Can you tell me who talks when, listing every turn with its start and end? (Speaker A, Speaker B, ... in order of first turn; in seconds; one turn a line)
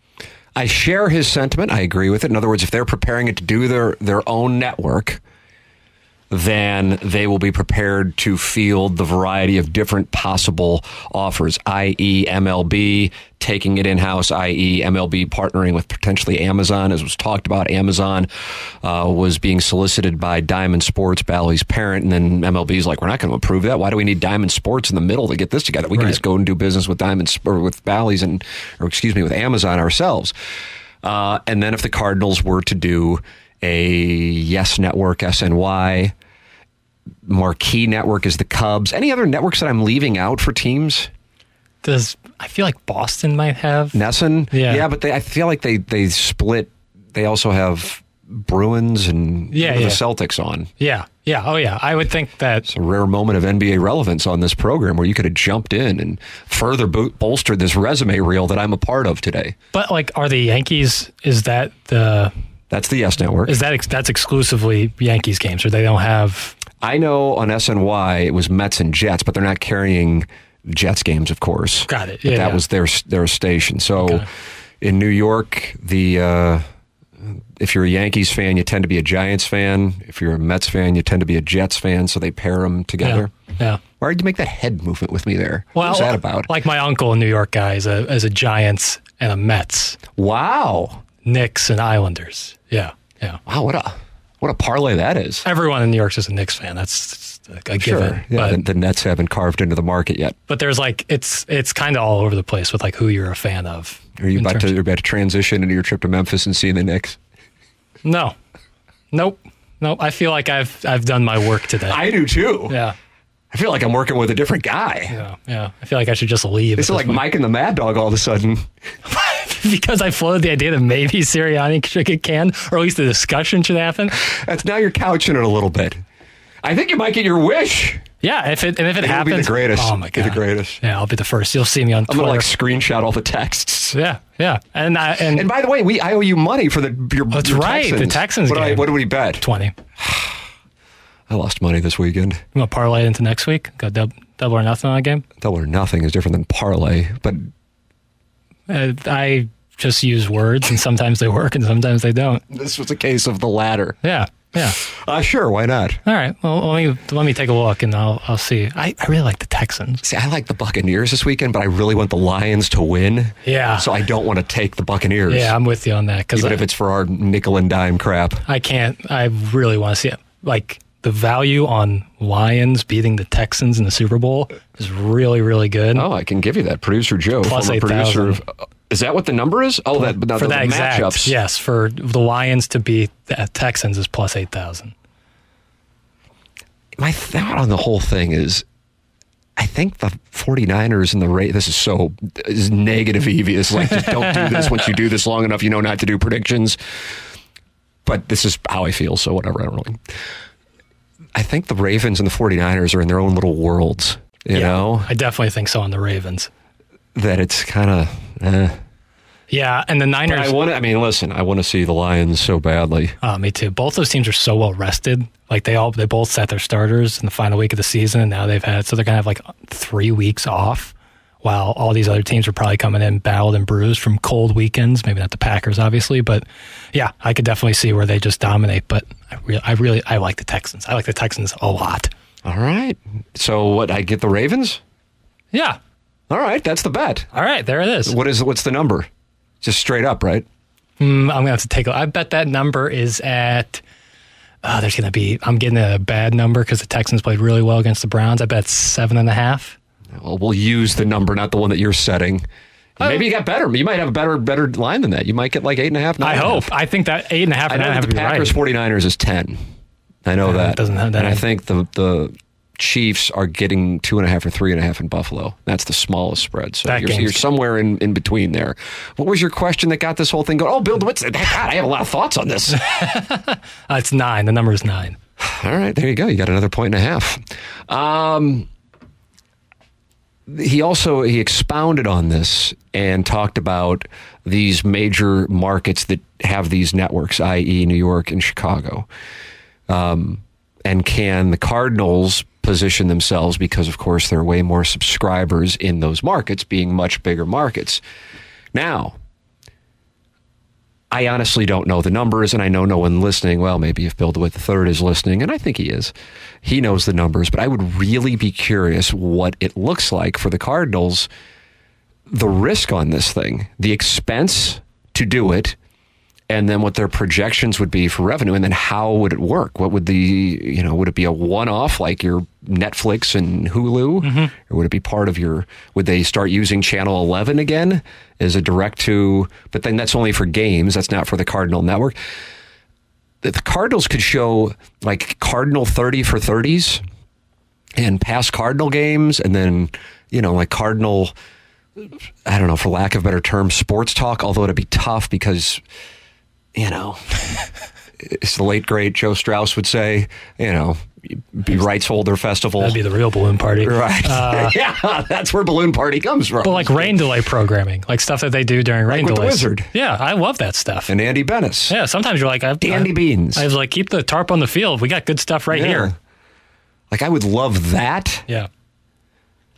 Speaker A: 0.5-5.2
Speaker A: 6.3-18.3
Speaker A: 18.8-30.3
Speaker A: 31.0-36.1
Speaker A: 37.2-41.1
Speaker B: 41.8-44.0
Speaker A: 43.9-50.7
Speaker B: 44.5-44.9
Speaker B: 49.5-50.0
Speaker B: 50.8-52.7
Speaker A: 52.6-59.5
Speaker B: 59.7-62.3
Speaker A: 62.7-63.6
Speaker B: 63.5-66.5
Speaker A: 66.8-74.2
Speaker B: 71.9-72.6
Speaker B: 74.0-74.2
Speaker A: 74.8-76.6
Speaker A: 77.6-83.3
Speaker B: 83.0-83.8
Speaker A: 84.0-86.5
Speaker B: 85.7-90.0
Speaker A: 90.2-91.0
Speaker B: 91.2-93.4
Speaker A: 93.5-95.4
Speaker B: 95.4-98.6
Speaker A: 97.8-100.3
Speaker B: 100.5-104.7
Speaker A: 104.2-107.2
Speaker B: 108.0-108.3
Speaker B: 109.1-112.1
Speaker A: 111.9-112.8
Speaker B: 112.7-112.9
Speaker A: 113.5-115.2
Speaker B: 115.1-117.2
Speaker A: 116.8-118.7
Speaker B: 119.1-124.2
Speaker A: 124.2-126.0
Speaker A: 126.6-128.0
Speaker B: 128.2-132.5
Speaker A: 129.0-130.8
Speaker A: 132.1-134.0
Speaker B: 133.9-135.5
Speaker A: 135.3-139.4
Speaker B: 137.3-139.7
Speaker A: 140.0-140.4
Speaker A: 141.3-142.4
Speaker B: 142.5-145.2
Speaker A: 145.4-147.5
Speaker B: 148.7-152.4
Speaker A: 152.5-154.0
Speaker B: 154.0-154.8
Speaker A: 154.8-156.0
Speaker B: 156.1-160.0
Speaker A: 160.0-165.5
Speaker B: 163.4-163.9
Speaker B: 165.3-166.6
Speaker A: 166.3-168.4
Speaker B: 168.4-176.1
Speaker A: 175.9-181.3
Speaker B: 177.4-178.4
Speaker B: 180.0-184.9
Speaker A: 187.0-188.6
Speaker A: 189.6-196.8
Speaker B: 194.0-194.7
Speaker A: 198.0-200.0
Speaker A: 201.3-205.1
Speaker B: 204.5-206.5
Speaker A: 207.1-208.8
Speaker B: 209.5-210.6
Speaker A: 210.3-213.2
Speaker B: 213.2-232.1
Speaker A: 232.4-234.8
Speaker B: 235.5-235.8
Speaker A: 236.3-237.3
Speaker B: 237.3-238.1
Speaker A: 238.0-239.1
Speaker A: 239.6-240.4
Speaker B: 241.0-243.8
Speaker B: 244.6-249.8
Speaker A: 250.1-252.4
Speaker A: 253.0-256.7
Speaker B: 253.0-253.2
Speaker B: 256.2-258.6
Speaker A: 257.7-259.6
Speaker A: 260.2-272.8
Speaker B: 260.4-261.4
Speaker B: 266.9-267.4
Speaker B: 272.8-275.2
Speaker A: 275.4-278.7
Speaker A: 280.5-289.1
Speaker A: 289.9-298.0
Speaker A: 298.7-299.2
Speaker A: 301.1-311.3
Speaker A: 312.3-315.8
Speaker A: 316.5-332.1
Speaker B: 324.2-324.5
Speaker A: 333.4-337.0
Speaker A: 337.9-341.3
Speaker A: 342.0-345.8
Speaker A: 346.7-347.3
Speaker A: 348.2-353.0
Speaker B: 352.8-354.7
Speaker A: 353.8-357.2
Speaker B: 356.6-361.1
Speaker A: 359.1-359.9
Speaker A: 361.1-361.9
Speaker B: 361.9-366.1
Speaker A: 362.8-363.6
Speaker A: 365.7-366.1
Speaker A: 367.1-368.4